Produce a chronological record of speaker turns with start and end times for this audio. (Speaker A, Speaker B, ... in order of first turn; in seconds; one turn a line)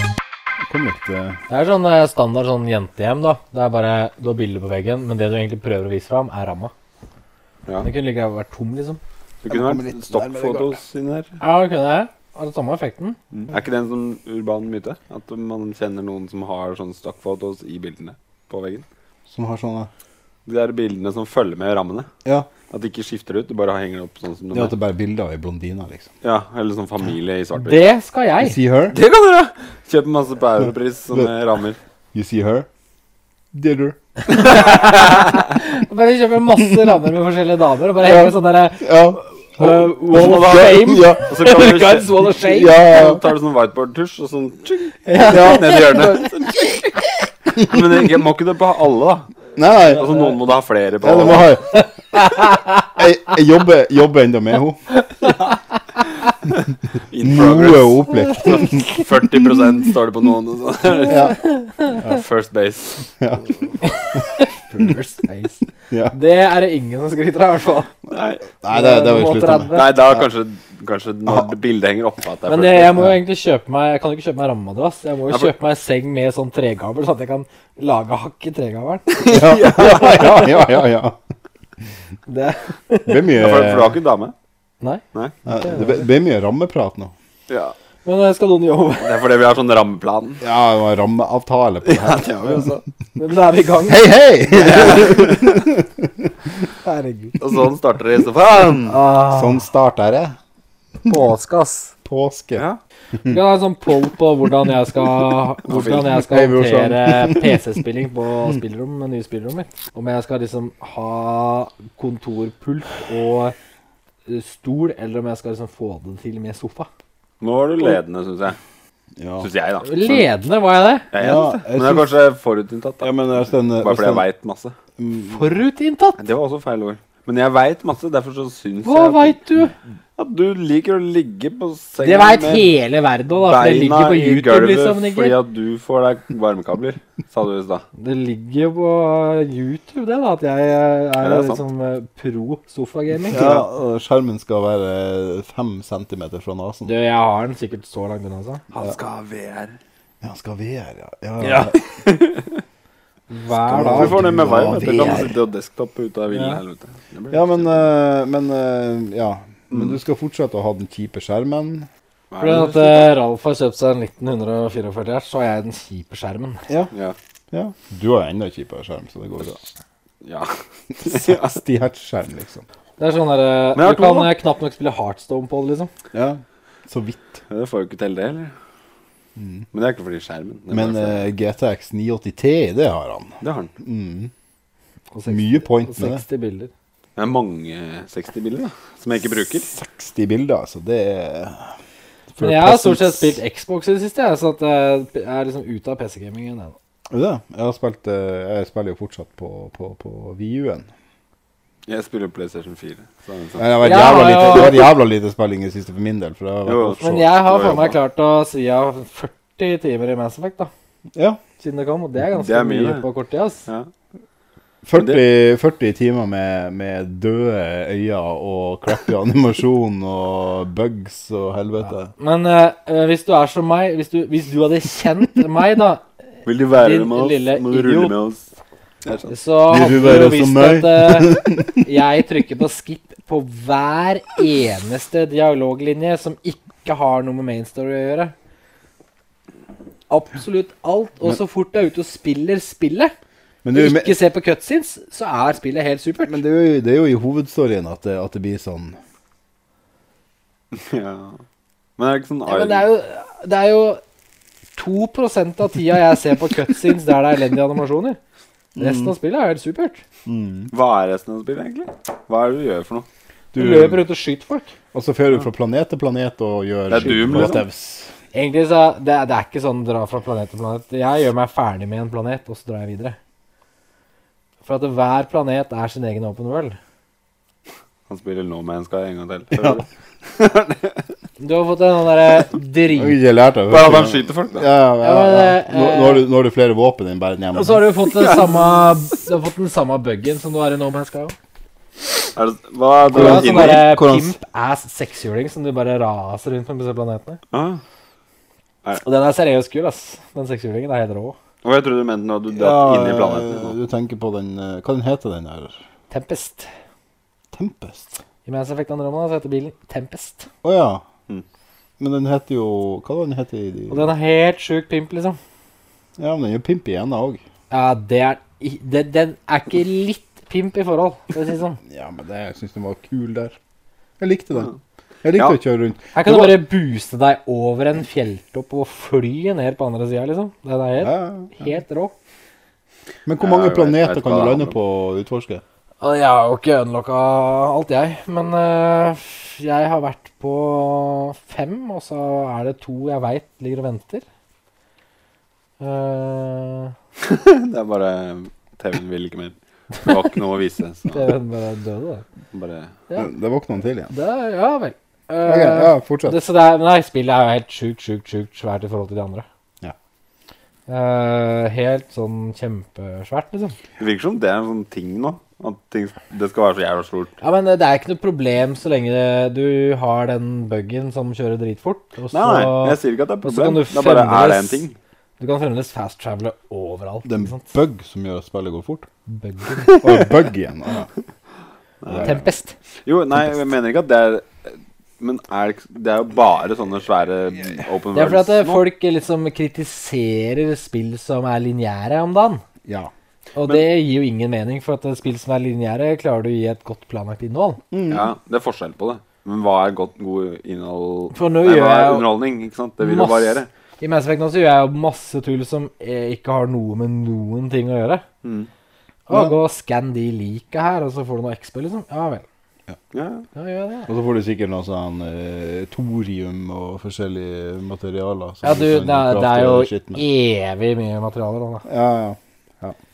Speaker A: 0.7-1.4
Speaker B: 1.5-6.7
Speaker B: 7.8-9.0
Speaker C: 9.4-11.4
Speaker A: 9.4-10.8
Speaker B: 11.4-13.2
Speaker C: 13.5-18.9
Speaker A: 19.3-19.9
Speaker C: 20.5-22.1
Speaker A: 22.2-22.5
Speaker C: 22.7-24.7
Speaker A: 24.5-26.1
Speaker C: 26.2-27.9
Speaker B: 27.6-28.6
Speaker A: 28.4-29.0
Speaker C: 28.9-31.8
Speaker A: 32.1-32.7
Speaker A: 33.5-34.6
Speaker B: 34.3-42.8
Speaker A: 38.0-41.4
Speaker C: 40.1-46.6
Speaker A: 42.4-43.2
Speaker B: 45.0-47.0
Speaker A: 47.5-48.2
Speaker C: 47.6-49.3
Speaker A: 49.6-50.2
Speaker C: 49.9-51.6
Speaker A: 51.0-51.8
Speaker B: 51.7-52.9
Speaker A: 53.0-54.9
Speaker B: 55.1-56.0
Speaker C: 57.1-63.1
Speaker A: 57.2-59.9
Speaker A: 61.0-62.2
Speaker A: 63.2-63.5
Speaker B: 63.8-67.9
Speaker A: 65.9-66.2
Speaker C: 68.1-68.4
Speaker A: 68.6-70.3
Speaker B: 68.7-69.9
Speaker C: 69.7-73.1
Speaker B: 72.5-80.8
Speaker C: 79.1-80.3
Speaker A: 79.3-81.2
Speaker B: 82.3-83.2
Speaker A: 83.1-84.0
Speaker C: 83.4-84.3
Speaker B: 84.8-86.0
Speaker A: 85.5-87.1
Speaker C: 87.5-87.8
Speaker B: 88.0-89.2
Speaker C: 89.0-90.4
Speaker A: 90.4-92.6
Speaker C: 91.8-92.8
Speaker B: 93.2-94.1
Speaker A: 93.9-96.3
Speaker C: 94.5-95.6
Speaker B: 96.8-97.4
Speaker C: 97.4-99.0
Speaker B: 98.9-99.6
Speaker A: 99.3-100.4
Speaker B: 101.1-101.9
Speaker A: 102.0-102.7
Speaker B: 103.3-113.6
Speaker C: 105.7-106.2
Speaker A: 106.2-107.6
Speaker B: 114.3-116.9
Speaker C: 117.4-118.6
Speaker A: 119.2-119.5
Speaker C: 119.4-120.3
Speaker B: 119.8-121.1
Speaker C: 121.1-124.8
Speaker A: 121.2-122.1
Speaker A: 123.0-124.2
Speaker A: 125.0-125.5
Speaker B: 125.3-126.2
Speaker C: 126.2-129.4
Speaker B: 128.8-129.8
Speaker C: 130.2-132.7
Speaker B: 132.0-135.4
Speaker C: 133.4-137.8
Speaker B: 138.0-143.7
Speaker C: 141.2-141.6
Speaker A: 143.3-146.9
Speaker B: 146.9-148.8
Speaker C: 148.8-149.8
Speaker A: 150.2-151.8
Speaker B: 151.4-151.7
Speaker C: 151.8-152.6
Speaker B: 153.3-155.4
Speaker A: 153.5-155.3
Speaker C: 153.8-157.9
Speaker B: 156.3-156.6
Speaker A: 157.3-161.9
Speaker C: 159.7-160.0
Speaker C: 162.3-163.1
Speaker B: 162.4-166.7
Speaker A: 167.5-169.6
Speaker C: 170.2-171.6
Speaker A: 171.0-172.7
Speaker B: 173.0-175.9
Speaker C: 173.8-174.3
Speaker A: 176.1-177.4
Speaker C: 177.5-178.5
Speaker A: 179.4-179.7
Speaker C: 179.7-181.3
Speaker A: 180.7-184.3
Speaker C: 183.4-183.7
Speaker B: 185.1-186.7
Speaker A: 185.3-186.2
Speaker C: 187.2-189.7
Speaker A: 189.7-191.8
Speaker A: 192.3-193.4
Speaker B: 192.4-196.8
Speaker A: 197.1-200.9
Speaker C: 201.9-204.8
Speaker A: 203.6-207.4
Speaker B: 203.8-204.9
Speaker C: 206.7-208.0
Speaker B: 207.0-210.7
Speaker A: 211.2-211.4
Speaker B: 211.6-213.7
Speaker C: 212.3-213.1
Speaker A: 214.8-222.1
Speaker B: 222.2-226.0
Speaker C: 226.4-228.5
Speaker B: 226.7-228.2
Speaker C: 229.1-229.3
Speaker B: 229.3-238.3
Speaker A: 229.7-231.8
Speaker B: 240.1-243.1
Speaker A: 243.6-244.2
Speaker B: 243.7-246.4
Speaker A: 246.2-249.0
Speaker C: 250.7-251.4
Speaker C: 252.0-252.9
Speaker B: 252.5-254.0
Speaker B: 254.8-258.2
Speaker A: 258.8-259.1
Speaker B: 258.8-260.0
Speaker A: 260.3-260.7
Speaker C: 260.7-263.1
Speaker A: 263.5-264.0
Speaker B: 263.5-264.8
Speaker A: 264.9-268.1
Speaker C: 266.9-267.6
Speaker B: 268.3-273.2
Speaker B: 274.6-276.8
Speaker C: 278.1-281.1
Speaker B: 281.4-283.2
Speaker A: 282.9-287.9
Speaker C: 283.7-284.7
Speaker B: 285.0-286.3
Speaker B: 287.5-291.4
Speaker C: 288.1-288.7
Speaker C: 292.4-293.9
Speaker A: 293.1-294.4
Speaker B: 293.1-297.4
Speaker C: 297.5-297.8
Speaker B: 299.0-301.4
Speaker C: 301.6-303.8
Speaker A: 302.5-305.8
Speaker B: 306.1-306.7
Speaker A: 307.5-308.2
Speaker B: 308.4-310.5
Speaker A: 310.6-311.0
Speaker A: 312.0-314.1
Speaker B: 313.9-315.4
Speaker A: 316.2-317.4
Speaker B: 317.7-321.8
Speaker A: 321.9-323.6
Speaker A: 324.2-324.7
Speaker A: 325.2-326.6
Speaker B: 326.1-332.1
Speaker A: 331.0-331.7
Speaker A: 333.3-335.6
Speaker C: 333.4-334.8
Speaker B: 336.0-344.2
Speaker B: 345.8-346.9
Speaker C: 347.2-351.3
Speaker B: 351.1-352.2
Speaker C: 352.5-352.9
Speaker A: 353.2-354.1
Speaker B: 354.1-359.4
Speaker A: 355.4-356.4
Speaker B: 360.9-363.8
Speaker C: 364.0-367.3
Speaker B: 367.4-374.9
Speaker C: 372.3-374.9
Speaker B: 375.4-377.7
Speaker A: 377.2-379.1
Speaker B: 379.3-380.0
Speaker C: 379.8-380.2
Speaker A: 380.0-381.1
Speaker C: 382.0-382.4
Speaker A: 382.1-382.4
Speaker B: 382.2-382.7
Speaker C: 383.1-388.9
Speaker B: 388.1-392.6
Speaker A: 392.9-393.1
Speaker B: 393.6-397.8
Speaker A: 397.9-398.3
Speaker C: 398.1-403.7
Speaker B: 401.3-402.3
Speaker B: 403.0-408.2
Speaker C: 408.4-408.7
Speaker B: 409.3-412.4
Speaker C: 413.1-413.5
Speaker B: 413.6-414.1
Speaker A: 414.1-420.2
Speaker B: 418.6-421.9
Speaker A: 421.9-423.0